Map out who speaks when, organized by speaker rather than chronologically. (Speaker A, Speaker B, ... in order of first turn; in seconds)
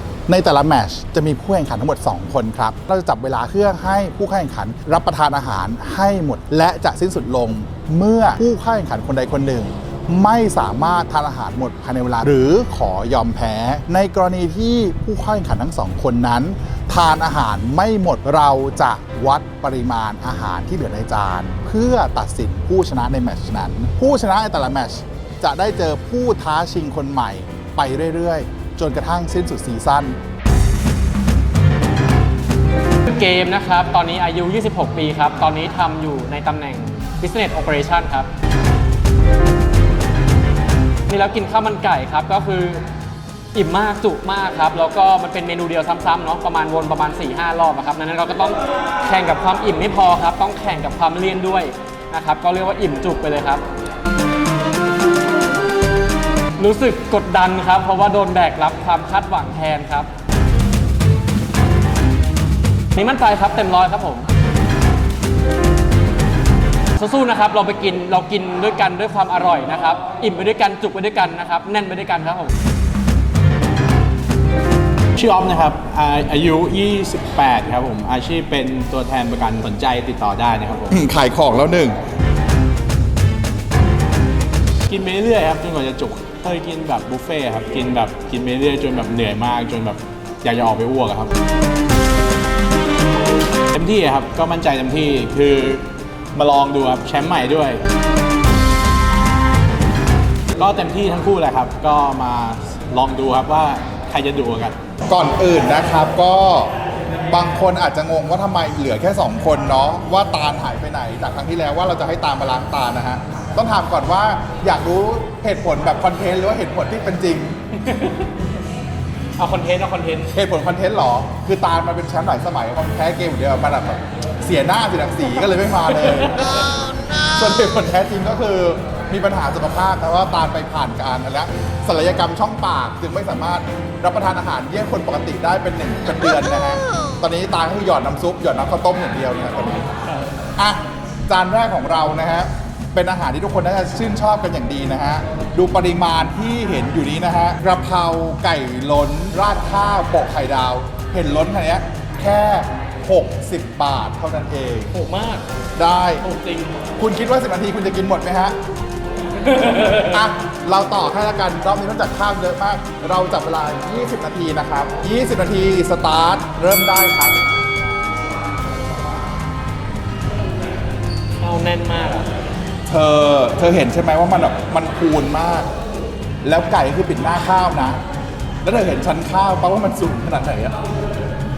Speaker A: 0.3-30.2, 80.9-82.0, 105.1-106.7, 107.3-117.6, 120.3-139.9, 140.6-154.9, 155.8-156.2, 157.0-158.6, 159.8-167.4, 172.9-175.7, 176.4-178.0, 178.6-180.8
Speaker B: 33.1-38.3, 41.1-42.8, 43.5-53.6, 56.6-60.1, 62.9-64.3, 67.0-72.5, 117.9-118.2, 119.4-120.3, 154.9-155.4, 156.2-156.7, 159.5-160.1, 171.4-172.3
Speaker C: 75.2-81.0, 84.9-91.3, 93.7-97.8, 100.5-104.8